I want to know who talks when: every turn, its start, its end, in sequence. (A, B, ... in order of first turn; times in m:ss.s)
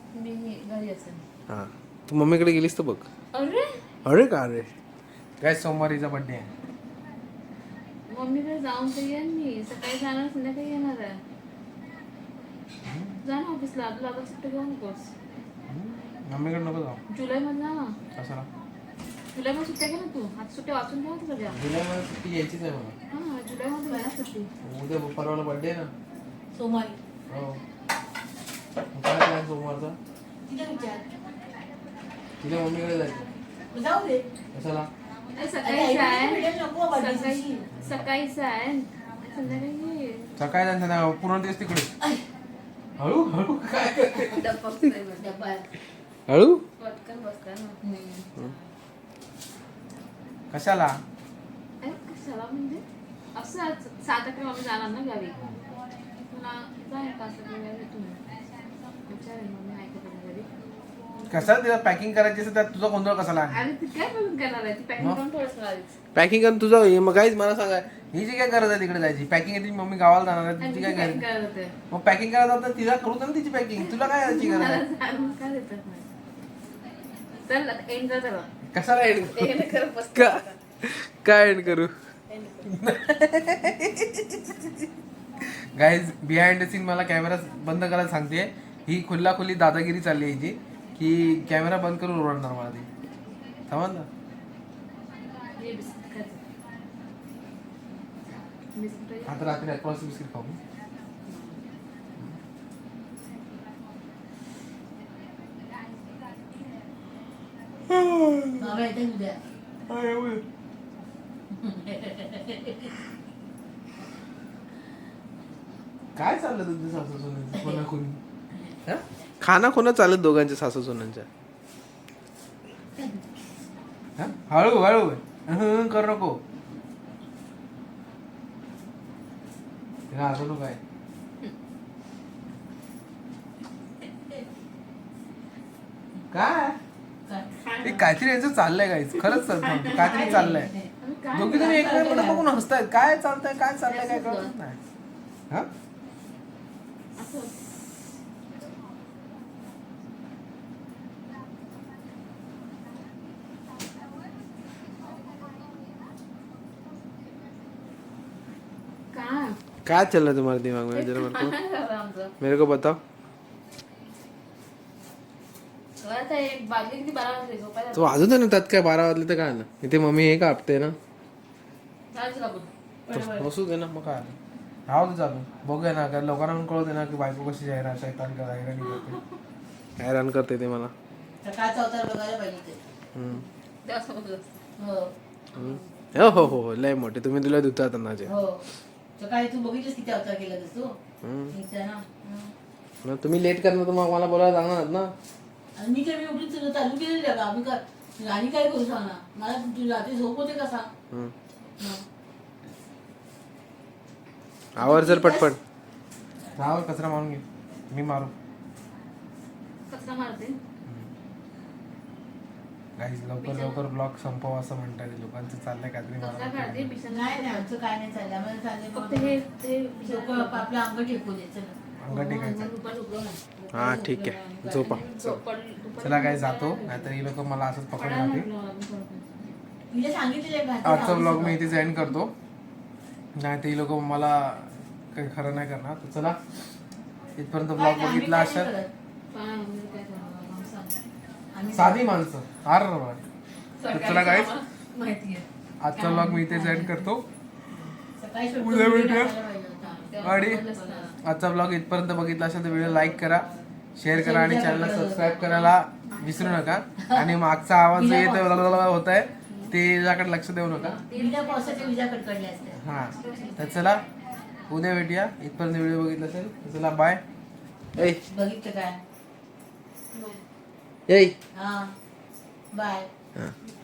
0:00.1-0:01.2 A
0:01.5-0:03.1 B
0:03.3-0:03.8 A
0:04.0-0:04.7 B
0:05.4-0:06.5 B
0:08.1-0:11.2 A
0:12.8-0:13.2 B
0:13.2-0:15.1 A
0:15.7-0:17.0 B
0:17.1-0:18.0 A
0:18.1-0:18.5 B
0:19.3-0:21.6 A
0:21.5-0:23.0 B
0:23.1-0:24.5 A
0:24.6-0:25.9 B
0:26.5-0:27.0 C
0:27.3-0:27.6 B
0:28.9-0:30.0 B
0:30.4-0:31.0 C
0:32.4-0:33.3 B
0:33.7-0:34.2 C
0:34.5-0:34.9 B
0:35.3-0:40.3 A
0:35.6-0:37.7 C
0:40.4-0:41.9 B
0:43.0-0:44.4 B
0:44.1-0:45.4 A
0:45.2-0:45.6 C
0:46.3-0:46.6 B
0:46.8-0:47.8 A
0:47.8-0:48.2 C
0:50.5-0:51.0 B
0:51.8-0:52.8 A
0:53.3-0:55.4 A
0:56.3-0:58.2 A
0:59.1-1:00.5 A
1:01.1-1:01.5 A
1:01.3-1:03.6 B
1:03.5-1:06.0 A
1:06.1-1:11.2 B
1:10.6-1:11.7 A
1:11.9-1:14.8 B
1:13.8-1:16.0 A
1:17.3-1:18.5 A
1:18.7-1:21.9 B
1:19.2-1:20.6 A
1:22.3-1:22.6 A
1:22.7-1:24.8 B
1:25.8-1:32.9 B
1:33.7-1:34.1 B
1:35.5-1:36.4 A
1:38.7-1:39.6 A
1:39.2-1:40.6 B
1:41.3-1:41.6 A
1:47.9-1:48.8 B
1:48.6-1:49.4 C
1:49.9-1:50.4 B
1:51.5-1:52.9 C
1:56.2-1:58.2 B
1:58.8-2:01.3 B
2:04.2-2:06.4 B
2:10.1-2:10.8 B
2:16.3-2:16.8 B
2:17.3-2:18.0 C
2:17.8-2:20.7 B
2:19.9-2:20.9 C
2:21.0-2:22.1 A
2:21.3-2:24.8 B
2:21.5-2:22.6 C
2:23.8-2:24.5 A
2:27.2-2:27.6 A
2:39.1-2:39.6 A
2:39.8-2:41.5 B
2:40.9-2:42.3 A
2:42.4-2:43.0 B
2:46.0-2:48.2 A
2:47.9-2:51.0 B
2:52.1-2:52.7 A
2:53.1-2:53.5 C
2:53.1-2:54.4 B
2:54.9-2:59.2 B
3:00.0-3:00.9 B
3:01.4-3:02.8 C
3:03.1-3:03.4 B
3:03.3-3:04.4 A
3:04.8-3:05.1 C
3:05.5-3:06.5 A
3:05.5-3:08.3 B
3:08.2-3:08.6 C
3:09.2-3:11.0 C
3:11.2-3:11.5 B
3:11.5-3:12.2 C
3:12.2-3:12.5 A
3:13.0-3:15.1 B
3:15.8-3:20.9 C
3:24.8-3:25.6 B
3:24.8-3:25.5 C
3:26.6-3:28.3 B
3:29.9-3:30.6 A
3:33.0-3:36.9 B
3:33.4-3:33.8 A
3:36.2-3:37.7 A
3:37.1-3:39.4 C
3:38.9-3:40.7 A
3:40.0-3:41.8 C
3:42.0-3:42.7 B
3:42.1-3:47.2 A
3:43.7-3:45.4 B
3:46.0-3:48.5 B
3:47.9-3:49.6 A
3:49.9-3:51.7 C
3:50.8-3:52.3 B
3:53.4-3:56.4 B
3:57.4-3:58.7 B
3:57.8-3:58.9 C
3:59.3-4:01.0 A
4:01.5-4:02.0 C
4:01.7-4:03.2 B
4:03.8-4:07.0 A
4:03.9-4:04.5 B
4:05.8-4:07.2 B
4:08.2-4:11.1 C
4:08.6-4:09.3 B
4:10.0-4:11.2 A
4:10.2-4:10.7 B
4:11.2-4:21.0 B
4:12.7-4:13.7 A
4:14.1-4:15.4 C
4:15.4-4:16.8 A
4:17.0-4:17.3 C
4:17.9-4:18.6 C
4:19.5-4:19.7 A
4:20.7-4:22.0 A
4:21.1-4:22.8 C
4:22.8-4:24.0 B
4:23.2-4:23.8 A
4:24.7-4:27.2 B
4:28.0-4:28.2 B
4:28.2-4:29.0 C
4:30.1-4:30.4 A
4:31.1-4:31.3 B
4:31.5-4:31.9 C
4:32.7-4:33.1 C